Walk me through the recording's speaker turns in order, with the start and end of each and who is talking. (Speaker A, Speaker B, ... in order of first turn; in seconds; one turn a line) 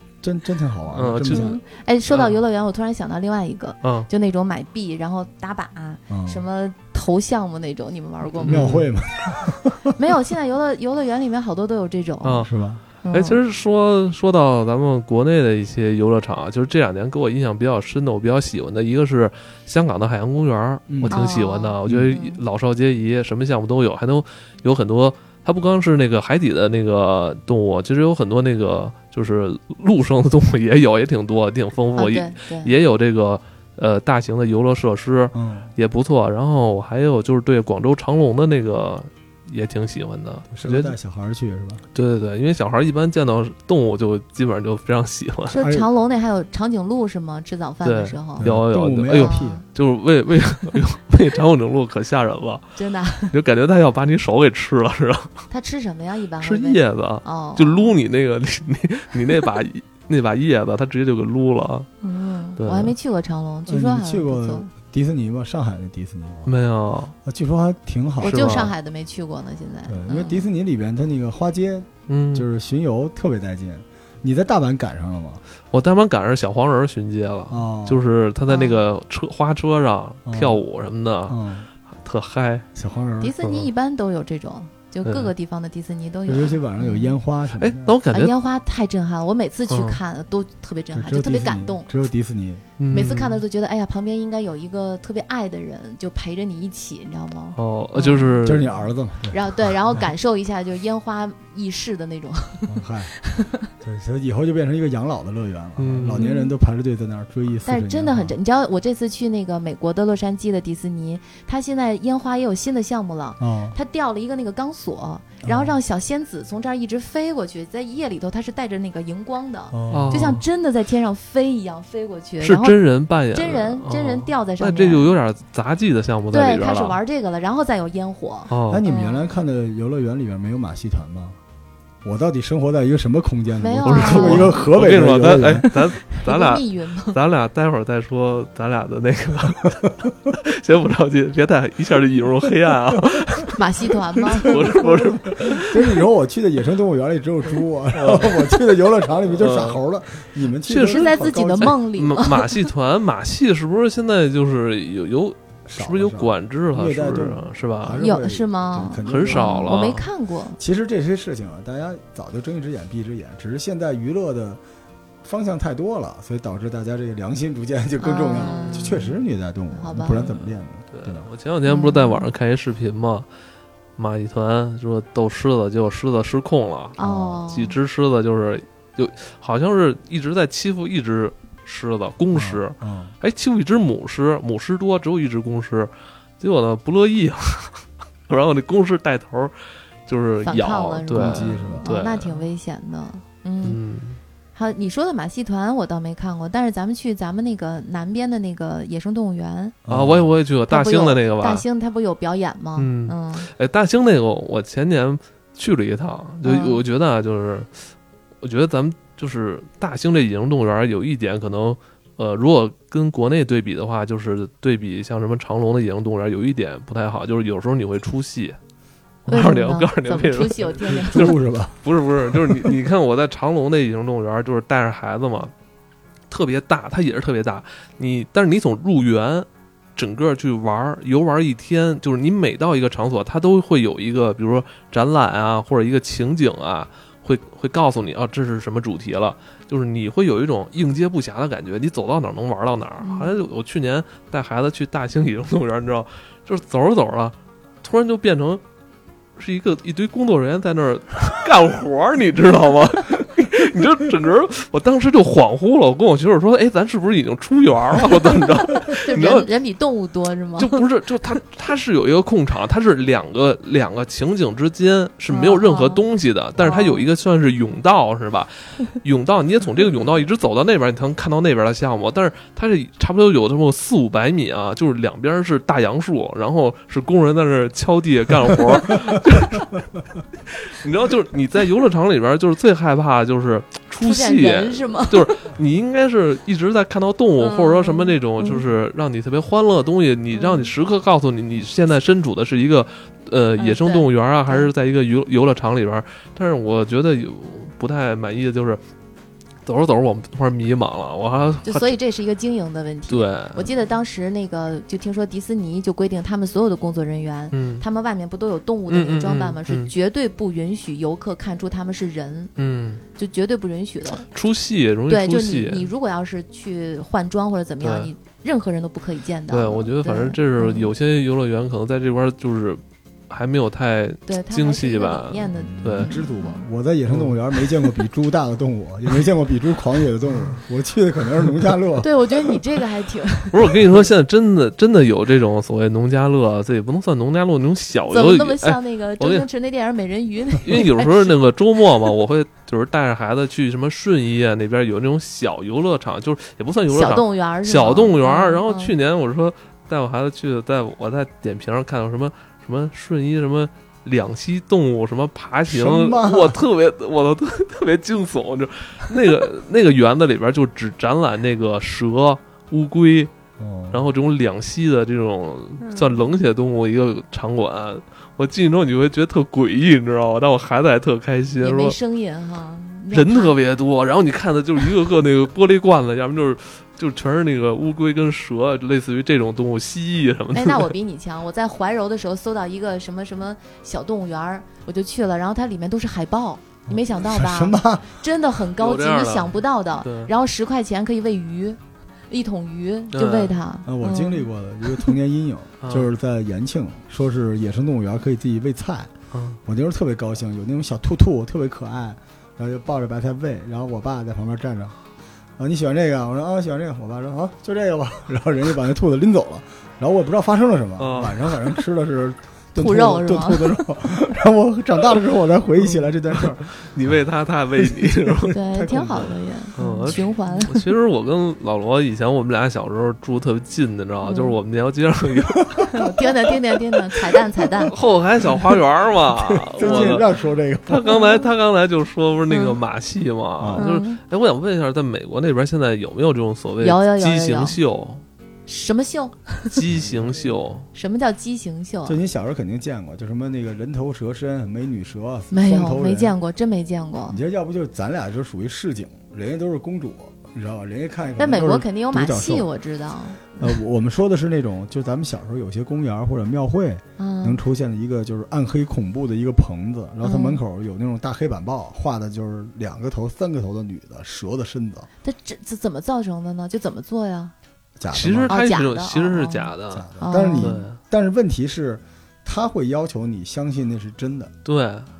Speaker A: 0.2-1.6
Speaker B: 0.9-1.6
Speaker C: 1.3-8.7
Speaker B: 2.1-2.3
Speaker B: 3.8-4.1
Speaker A: 6.1-6.4
Speaker A: 8.4-10.0
Speaker B: 8.4-8.9
Speaker C: 9.9-13.4
Speaker B: 12.2-12.5
Speaker A: 12.4-12.8
Speaker B: 13.1-40.9
Speaker A: 20.9-21.2
Speaker C: 21.1-22.4
Speaker A: 21.9-22.1
Speaker C: 32.0-32.7
Speaker A: 35.3-35.7
Speaker A: 40.5-41.8
Speaker B: 41.9-45.6
Speaker C: 45.5-48.5
Speaker A: 45.6-45.9
Speaker B: 47.8-52.6
Speaker A: 48.4-49.6
Speaker C: 49.1-49.6
Speaker C: 52.8-53.3
Speaker B: 53.3-55.3
Speaker C: 55.5-58.0
Speaker B: 56.4-61.9
Speaker C: 62.0-64.7
Speaker B: 62.6-62.9
Speaker A: 63.7-66.5
Speaker B: 66.5-67.1
Speaker A: 67.2-68.7
Speaker C: 68.2-70.5
Speaker B: 68.2-68.7
Speaker A: 69.9-75.4
Speaker B: 72.1-72.5
Speaker B: 75.7-81.4
Speaker A: 77.5-78.0
Speaker C: 78.5-78.8
Speaker A: 80.2-80.6
Speaker A: 81.3-81.7
Speaker B: 81.9-82.7
Speaker A: 82.7-83.3
Speaker C: 83.2-87.2
Speaker B: 83.4-83.7
Speaker B: 85.0-85.3
Speaker A: 86.3-88.0
Speaker B: 87.6-88.3
Speaker C: 88.1-91.9
Speaker B: 89.7-90.0
Speaker A: 90.9-92.6
Speaker B: 92.8-93.4
Speaker C: 92.9-103.7
Speaker B: 97.5-98.7
Speaker A: 98.4-100.1
Speaker A: 102.7-103.1
Speaker A: 103.8-108.3
Speaker B: 105.8-106.3
Speaker C: 106.2-106.5
Speaker C: 107.7-122.8
Speaker A: 113.4-113.8
Speaker A: 115.4-115.8
Speaker A: 119.7-120.3
Speaker B: 119.9-120.4
Speaker B: 122.4-127.0
Speaker C: 123.3-125.1
Speaker C: 126.3-129.3
Speaker B: 128.5-128.8
Speaker A: 128.7-131.4
Speaker A: 132.0-135.7
Speaker C: 133.6-134.7
Speaker B: 133.8-145.9
Speaker C: 135.6-137.2
Speaker C: 143.6-145.0
Speaker A: 144.2-151.8
Speaker B: 147.9-148.4
Speaker B: 149.3-149.8
Speaker B: 150.7-158.0
Speaker C: 150.8-152.7
Speaker A: 155.7-159.8
Speaker C: 158.0-160.6
Speaker B: 159.1-160.1
Speaker A: 160.6-164.6
Speaker A: 165.2-171.3
Speaker C: 168.0-169.2
Speaker B: 168.4-169.0
Speaker C: 169.7-170.3
Speaker B: 170.1-173.3
Speaker C: 171.7-172.3
Speaker B: 174.0-192.4
Speaker C: 177.0-177.8
Speaker A: 177.0-177.4
Speaker A: 182.3-183.1
Speaker C: 190.4-193.8
Speaker A: 191.1-191.9
Speaker B: 193.6-194.2
Speaker C: 194.5-199.8
Speaker A: 199.8-200.3
Speaker B: 199.9-201.6
Speaker C: 200.7-203.5
Speaker B: 202.8-207.9
Speaker C: 206.4-206.8
Speaker B: 208.4-218.6
Speaker B: 219.2-225.5
Speaker C: 219.3-221.4
Speaker A: 220.8-222.8
Speaker B: 226.3-248.6
Speaker C: 243.0-243.3
Speaker B: 249.4-259.5
Speaker C: 258.7-260.9
Speaker B: 260.6-279.7
Speaker C: 265.3-266.0
Speaker C: 266.6-267.1
Speaker B: 280.5-298.8
Speaker C: 284.0-285.4
Speaker C: 287.4-288.6
Speaker C: 290.3-290.7
Speaker C: 293.6-294.7
Speaker B: 299.6-301.9
Speaker C: 301.6-312.6
Speaker B: 303.1-303.7
Speaker B: 307.5-307.8
Speaker B: 308.9-309.9
Speaker B: 312.6-313.0
Speaker C: 313.1-314.3
Speaker B: 314.2-315.8
Speaker C: 315.1-320.9
Speaker B: 317.8-318.1
Speaker B: 319.5-326.2
Speaker C: 324.3-326.6
Speaker A: 325.5-332.1
Speaker B: 327.1-327.4
Speaker C: 332.0-333.8
Speaker B: 333.5-339.4
Speaker C: 338.1-341.4
Speaker B: 340.6-363.3
Speaker C: 346.9-348.9
Speaker A: 355.7-356.6
Speaker A: 363.6-364.1
Speaker B: 363.9-371.9
Speaker C: 365.8-366.3
Speaker C: 371.6-373.6
Speaker B: 373.1-380.9
Speaker C: 380.5-395.1
Speaker A: 386.9-388.2
Speaker B: 388.8-390.3
Speaker B: 393.1-393.6
Speaker A: 393.9-399.1
Speaker B: 395.8-396.1
Speaker B: 399.3-399.6
Speaker A: 399.6-404.9
Speaker A: 405.6-416.7
Speaker B: 411.0-411.8
Speaker C: 412.7-413.8
Speaker B: 416.4-418.6
Speaker C: 418.5-420.9
Speaker A: 418.7-419.4
Speaker B: 419.8-426.0
Speaker C: 424.2-424.6
Speaker C: 425.9-427.9
Speaker B: 427.8-430.2
Speaker A: 429.5-431.2
Speaker C: 429.8-430.2
Speaker B: 430.9-438.2
Speaker C: 431.0-431.4
Speaker C: 432.5-432.8
Speaker A: 433.6-433.9
Speaker C: 433.8-434.2
Speaker C: 436.8-437.8
Speaker C: 438.7-439.8
Speaker B: 439.7-440.9
Speaker A: 439.9-440.5
Speaker C: 440.9-442.2
Speaker A: 442.1-446.3
Speaker C: 445.5-447.4
Speaker A: 447.3-452.7
Speaker C: 451.4-453.8
Speaker A: 453.6-465.1
Speaker C: 457.2-457.6
Speaker C: 460.2-460.6
Speaker C: 465.2-467.5
Speaker A: 468.0-468.6
Speaker B: 468.1-471.0
Speaker C: 468.5-470.9
Speaker A: 469.9-474.5
Speaker B: 474.6-475.1